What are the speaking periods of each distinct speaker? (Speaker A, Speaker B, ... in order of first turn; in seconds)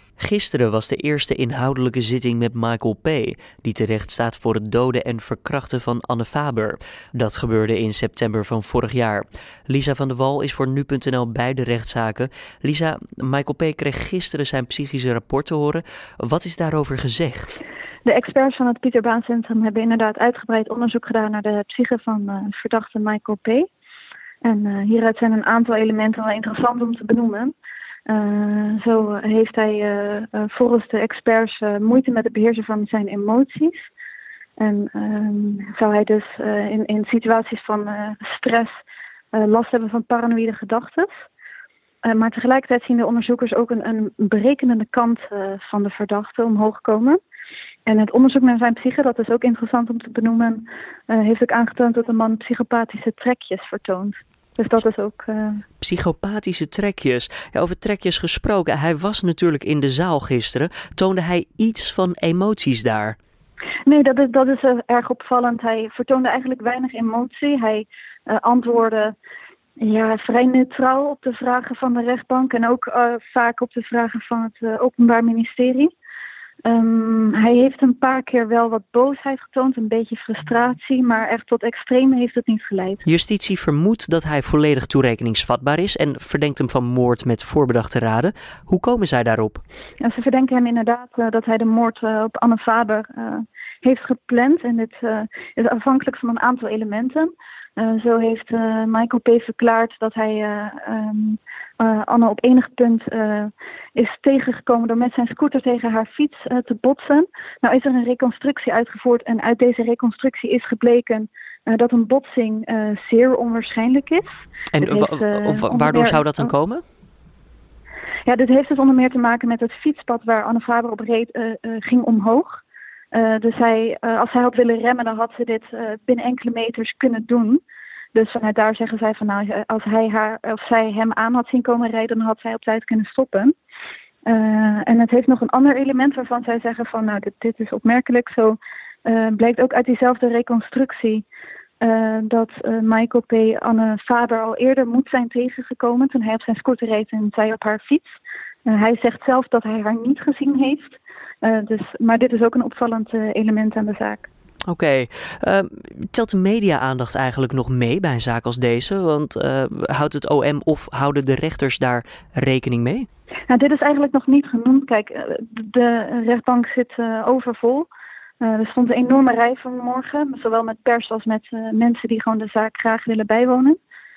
Speaker A: 0.2-17.6, 55.8-63.2, 83.0-89.6, 114.7-116.8, 154.7-163.1
Speaker B: 18.1-23.7, 24.4-27.6, 28.1-33.9, 34.6-38.7, 39.3-41.1, 42.0-47.2, 47.9-55.6, 63.9-69.2, 69.8-75.9, 76.7-83.0, 90.0-114.3, 114.8-116.5, 118.3-122.6, 123.1-127.6, 128.1-133.6, 134.3-141.2, 141.8-148.1, 148.7-154.3, 163.5-167.9, 168.4-173.8